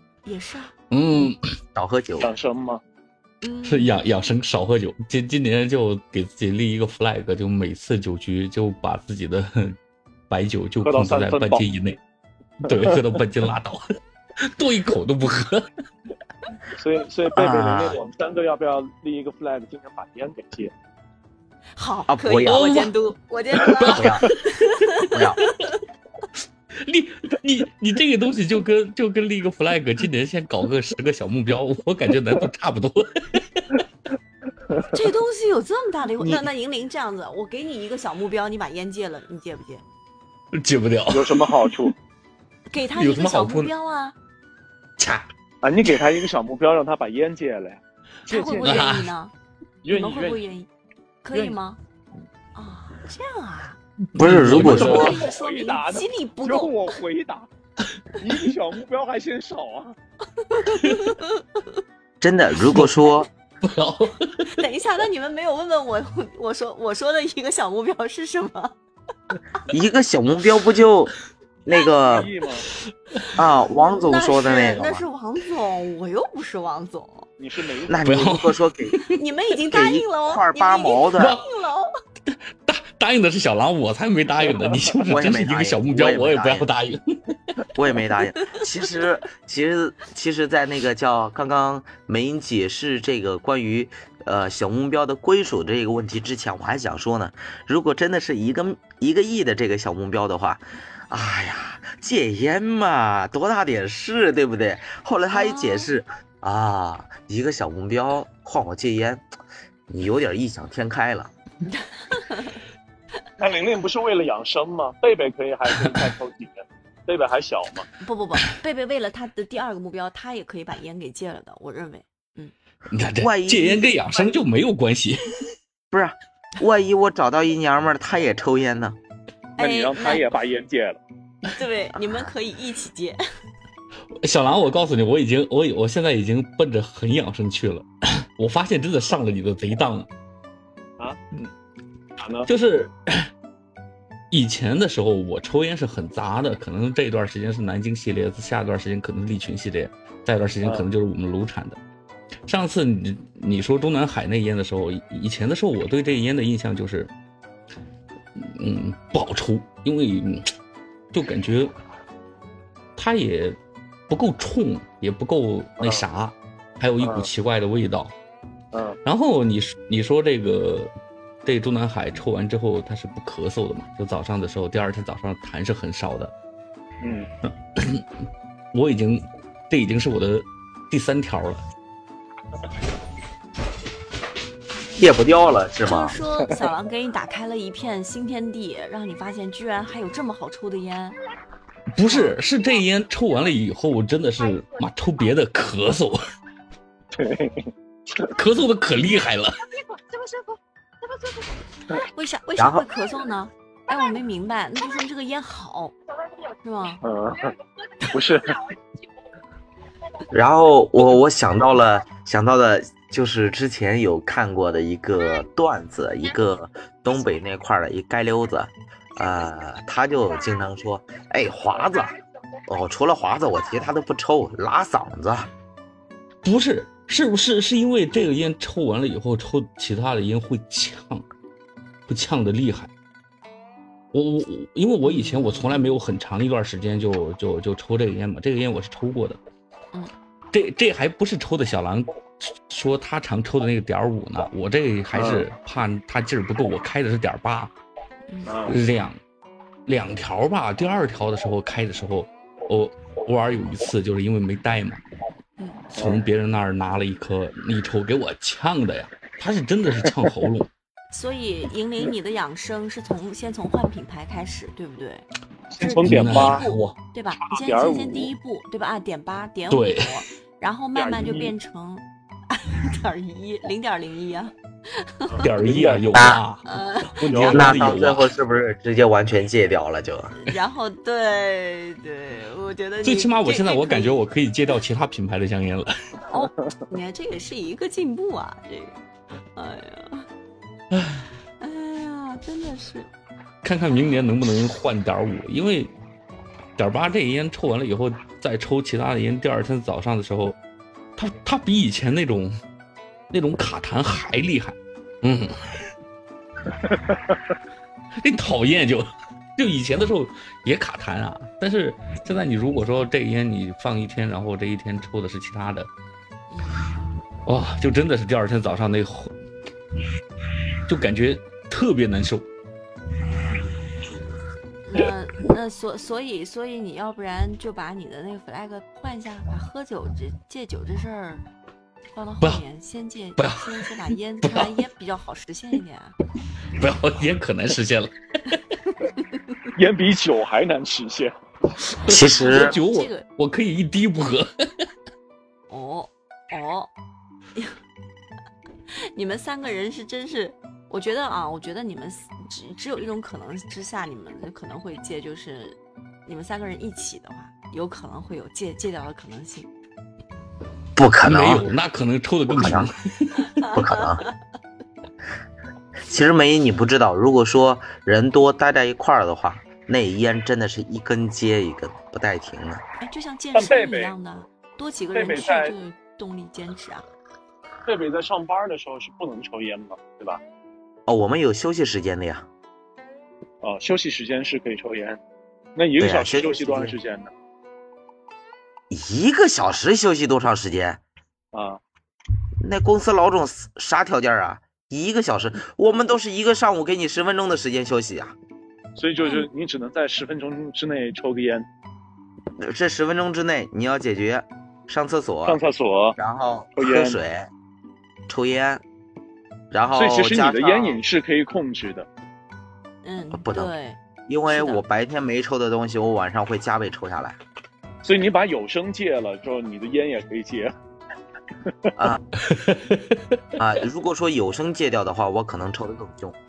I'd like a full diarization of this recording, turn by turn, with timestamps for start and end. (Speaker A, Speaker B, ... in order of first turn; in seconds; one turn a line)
Speaker A: 0.2-0.7
Speaker B: 0.9-1.4
Speaker C: 1.8-2.3
Speaker D: 2.2-2.8
Speaker A: 3.4-4.0
Speaker B: 3.7-9.8
Speaker B: 10.3-12.0
Speaker D: 10.8-11.7
Speaker B: 12.7-13.8
Speaker D: 12.7-13.1
Speaker B: 14.4-15.7
Speaker D: 16.7-20.7
Speaker C: 17.4-18.0
Speaker A: 21.8-25.8
Speaker C: 22.1-22.6
Speaker B: 22.4-22.9
Speaker B: 23.6-24.4
Speaker C: 23.9-24.3
Speaker C: 25.1-25.4
Speaker B: 26.8-33.8
Speaker A: 34.8-39.8
Speaker B: 36.2-36.5
Speaker B: 40.5-41.8
Speaker D: 41.1-41.9
Speaker A: 42.7-44.2
Speaker B: 43.0-43.7
Speaker B: 45.0-45.3
Speaker D: 45.6-48.9
Speaker A: 48.3-49.3
Speaker B: 48.6-49.1
Speaker D: 49.8-50.4
Speaker A: 49.9-50.7
Speaker A: 51.2-51.8
Speaker A: 52.5-53.8
Speaker B: 54.1-55.2
Speaker C: 54.2-55.2
Speaker D: 54.5-57.5
Speaker A: 54.7-56.8
Speaker D: 58.2-60.0
Speaker A: 60.4-61.6
Speaker C: 62.2-63.3
Speaker B: 62.6-63.0
Speaker B: 63.6-64.5
Speaker A: 64.5-68.7
Speaker C: 69.7-71.1
Speaker C: 71.7-72.3
Speaker D: 72.0-72.7
Speaker C: 73.3-75.0
Speaker A: 73.7-77.3
Speaker D: 77.4-78.2
Speaker C: 77.9-79.0
Speaker B: 78.0-79.1
Speaker A: 79.1-81.9
Speaker C: 79.7-81.4
Speaker B: 81.2-81.4
Speaker B: 82.3-87.4
Speaker C: 85.1-86.7
Speaker C: 87.8-109.2
Speaker A: 105.3-105.9
Speaker C: 109.9-111.3
Speaker A: 111.7-112.6
Speaker D: 113.4-117.9
Speaker A: 118.0-122.5
Speaker B: 122.9-125.4
Speaker C: 123.2-124.0
Speaker C: 125.9-129.0
Speaker A: 129.6-130.3
Speaker D: 129.6-131.0
Speaker A: 131.4-133.2
Speaker C: 131.9-132.3
Speaker B: 134.2-140.1
Speaker D: 142.2-142.5
Speaker B: 142.5-143.3
Speaker B: 144.3-151.8
Speaker D: 150.6-150.9
Speaker B: 152.5-157.1
Speaker B: 158.4-160.5
Speaker B: 161.1-161.8
Speaker B: 163.0-163.6
Speaker B: 164.1-168.1
Speaker D: 167.0-167.3
Speaker D: 168.7-169.0
Speaker B: 169.1-170.9
Speaker B: 171.4-176.3
Speaker D: 177.0-177.3
Speaker B: 177.8-178.0
Speaker B: 178.7-181.6
Speaker C: 185.0-186.2
Speaker A: 185.8-191.2
Speaker B: 191.9-196.2
Speaker A: 192.1-192.4
Speaker D: 197.2-197.7
Speaker B: 198.2-199.5
Speaker A: 201.9-205.9
Speaker C: 202.6-202.8
Speaker A: 206.6-207.0
Speaker D: 207.0-207.5
Speaker D: 208.1-208.6
Speaker C: 210.3-222.2
Speaker C: 222.7-225.5
Speaker B: 226.4-231.2
Speaker B: 232.1-232.9
Speaker B: 234.1-239.4
Speaker A: 235.0-236.0
Speaker B: 240.5-247.7
Speaker D: 245.1-245.5
Speaker D: 248.5-248.8
Speaker B: 248.7-249.2
Speaker B: 249.9-255.0
Speaker A: 255.6-255.9
Speaker D: 255.9-256.2
Speaker B: 255.9-260.7
Speaker A: 261.1-265.3
Speaker D: 265.7-266.6
Speaker A: 265.8-275.5
Speaker B: 265.9-267.0
Speaker D: 267.4-268.3
Speaker B: 269.7-270.1
Speaker D: 270.9-271.5
Speaker D: 275.3-276.2
Speaker B: 275.4-278.3
Speaker A: 276.6-277.6
Speaker D: 277.3-277.8
Speaker C: 277.5-280.3
Speaker A: 280.4-284.2
Speaker B: 283.0-285.9
Speaker A: 286.3-289.0
Speaker A: 289.6-290.3
Speaker B: 290.9-291.2
Speaker A: 291.6-293.1
Speaker B: 293.6-295.9
Speaker B: 296.8-300.6
Speaker B: 301.2-302.5
Speaker B: 303.3-305.5
Speaker D: 306.9-307.4
Speaker B: 308.2-315.9
Speaker A: 316.5-317.0
Speaker B: 317.5-319.3
Speaker B: 320.9-322.4
Speaker A: 323.4-323.8
Speaker A: 324.9-331.5
Speaker A: 332.1-336.2
Speaker B: 333.4-333.9
Speaker B: 334.4-334.8
Speaker B: 336.8-338.6
Speaker D: 339.8-341.3
Speaker B: 342.0-344.5
Speaker C: 342.1-342.8
Speaker A: 342.2-343.2
Speaker A: 345.7-346.9
Speaker A: 349.1-359.7
Speaker C: 361.0-361.7
Speaker B: 361.2-363.6
Speaker C: 362.5-362.9
Speaker A: 363.5-364.3
Speaker C: 363.7-364.2
Speaker C: 366.1-372.8
Speaker A: 373.0-377.1
Speaker D: 373.5-374.1
Speaker D: 375.1-375.8
Speaker D: 377.9-380.4
Speaker C: 381.1-382.5
Speaker D: 383.6-385.2
Speaker D: 385.8-387.3
Speaker C: 386.0-387.0
Speaker C: 388.9-391.0
Speaker D: 391.5-391.8
Speaker C: 392.6-398.4
Speaker D: 399.0-401.7
Speaker C: 402.6-405.6
Speaker D: 405.5-406.2
Speaker C: 406.2-407.5
Speaker D: 406.8-407.2
Speaker C: 408.3-408.8
Speaker C: 409.7-411.0
Speaker D: 409.9-412.1
Speaker A: 413.0-414.8
Speaker C: 413.3-413.7
Speaker C: 414.3-417.4
Speaker D: 418.0-420.7
Speaker C: 422.0-422.2
Speaker B: 422.5-423.2
Speaker C: 423.6-426.4